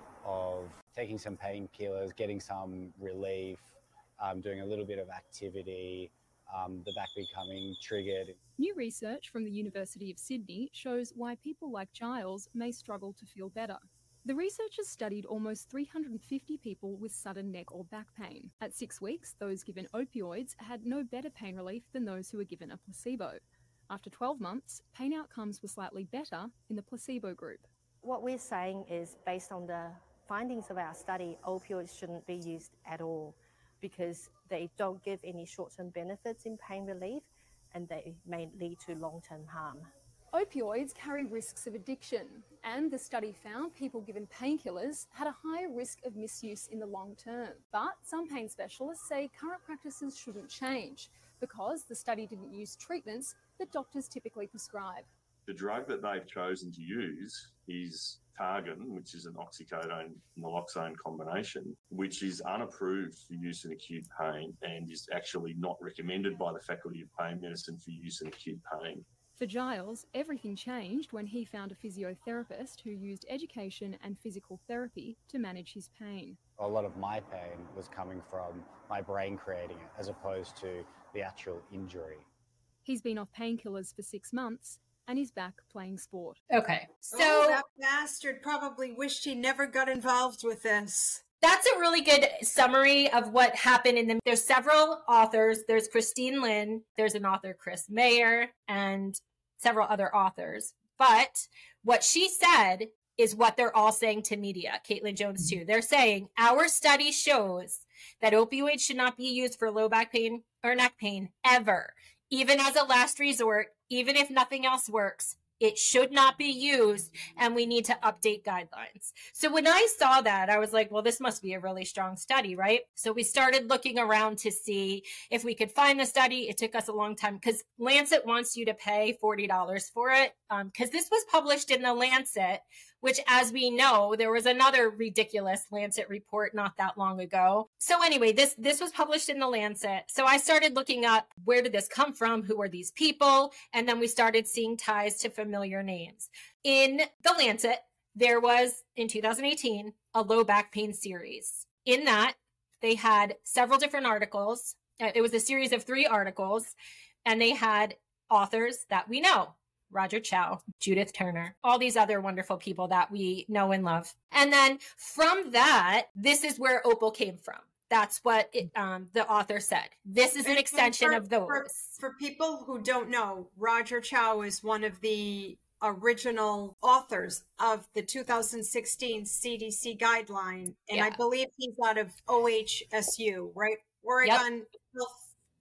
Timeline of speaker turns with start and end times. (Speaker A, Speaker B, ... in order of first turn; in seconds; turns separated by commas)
Speaker A: 0.2-8.4, Speaker B: 8.6-27.7, Speaker C: 28.0-39.9, Speaker B: 40.3-55.1, Speaker D: 55.5-69.0, Speaker B: 69.4-76.4, Speaker A: 76.6-82.2, Speaker B: 82.8-86.4, Speaker E: 86.5-87.6, Speaker F: 87.1-91.2, Speaker E: 91.4-171.9, Speaker F: 170.4-185.2, Speaker E: 180.9-181.2